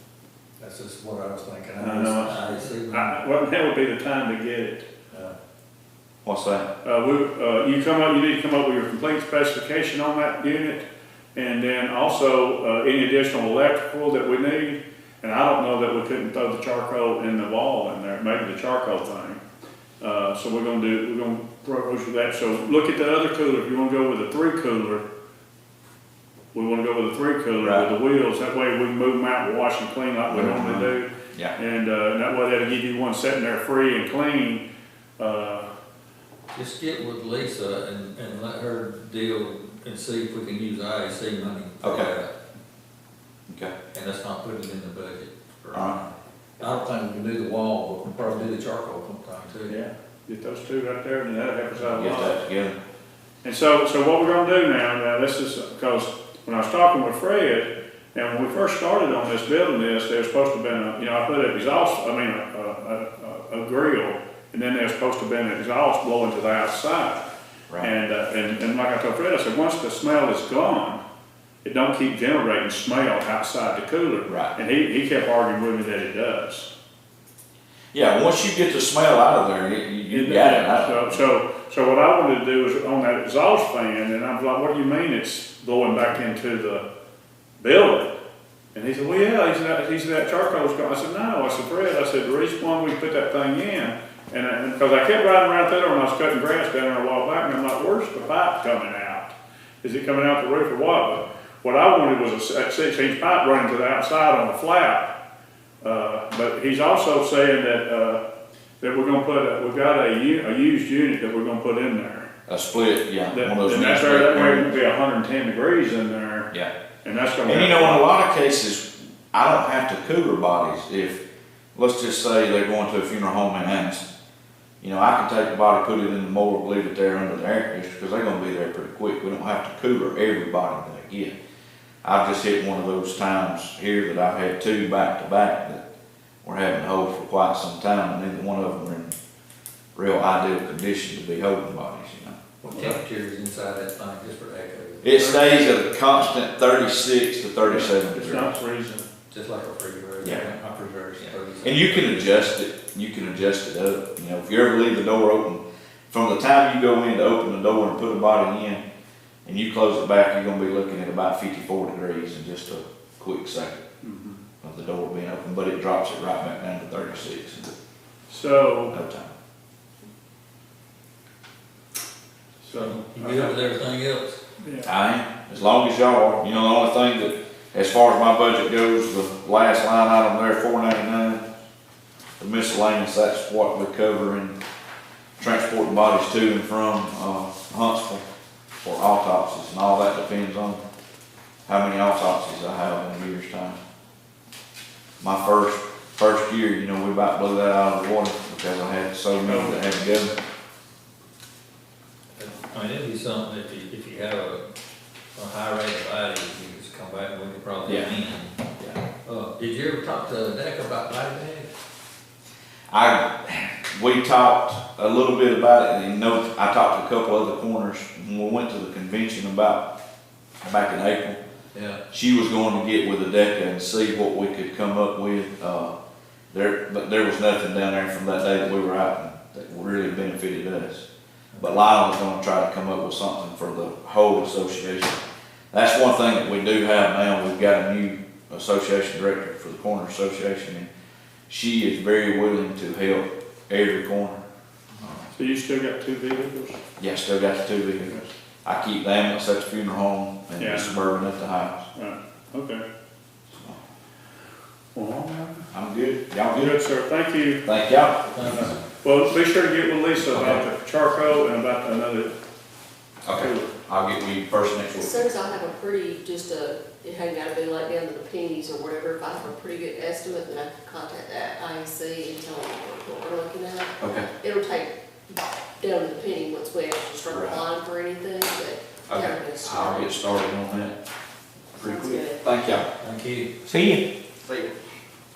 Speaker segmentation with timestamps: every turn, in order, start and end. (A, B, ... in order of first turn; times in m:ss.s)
0:00.6-0:03.2 A
0:01.8-0:04.9 B
0:06.2-0:06.7 C
0:06.8-0:19.4 B
0:20.0-0:25.0 B
0:26.5-0:34.6 B
0:27.6-0:27.9 C
0:30.3-0:31.5 C
0:35.2-0:35.7 B
0:36.5-0:42.3 A
0:41.8-0:42.1 C
0:43.9-0:49.8 A
0:45.7-0:46.0 C
0:49.7-0:52.4 B
0:51.8-0:52.8 C
0:53.4-1:07.2 B
1:07.8-1:11.0 B
1:11.6-1:16.7 B
1:14.3-1:14.5 C
1:17.9-1:21.2 C
1:20.1-1:26.8 B
1:27.6-1:28.1 B
1:28.7-1:45.1 B
1:45.8-1:48.2 B
1:48.8-1:52.3 B
1:52.5-1:54.7 C
1:53.3-1:56.5 B
1:57.0-1:58.1 B
1:57.4-2:01.2 C
2:01.7-2:04.0 C
2:04.8-2:11.3 C
2:12.0-2:15.8 C
2:16.4-2:19.1 C
2:19.9-2:22.4 C
2:22.6-2:25.7 A
2:25.0-2:28.6 C
2:27.6-2:29.1 B
2:29.3-2:32.4 A
2:30.2-2:30.5 C
2:31.2-2:38.8 C
2:39.4-2:43.8 C
2:44.0-2:44.4 B
2:44.6-2:47.7 C
2:48.3-2:48.9 B
2:48.9-2:49.3 C
2:52.6-2:53.6 B
2:52.7-2:54.4 A
2:54.6-2:54.9 B
2:54.8-3:01.4 C
3:02.4-3:04.6 C
3:05.4-3:08.2 C
3:08.8-3:10.8 C
3:11.6-3:13.8 C
3:15.2-3:20.3 C
3:19.4-3:19.8 B
3:22.4-3:24.6 A
3:25.3-3:28.5 A
3:27.8-3:28.1 C
3:28.8-3:29.0 C
3:29.2-3:31.7 A
3:32.9-3:39.8 C
3:40.6-3:41.4 C
3:41.7-3:42.0 A
3:42.1-3:45.9 C
3:46.5-3:51.0 C
3:51.6-3:55.2 C
3:55.7-4:00.9 C
4:01.5-4:04.4 C
4:05.3-4:06.8 B
4:07.0-4:11.8 C
4:08.0-4:08.3 B
4:10.6-4:11.0 B
4:11.9-4:12.8 B
4:13.5-4:13.8 C
4:14.9-4:15.6 B
4:15.7-4:16.8 C
4:16.6-4:17.6 B
4:17.6-4:18.7 C
4:18.3-4:18.8 A
4:19.0-4:22.3 B
4:20.3-4:20.6 A
4:23.2-4:25.3 C
4:23.3-4:23.7 B
4:25.0-4:40.3 D
4:34.0-4:34.3 C
4:37.2-4:37.6 C
4:39.1-4:40.9 C
4:41.7-4:42.8 C
4:41.8-4:42.4 D
4:43.0-4:43.5 A
4:43.6-4:44.7 C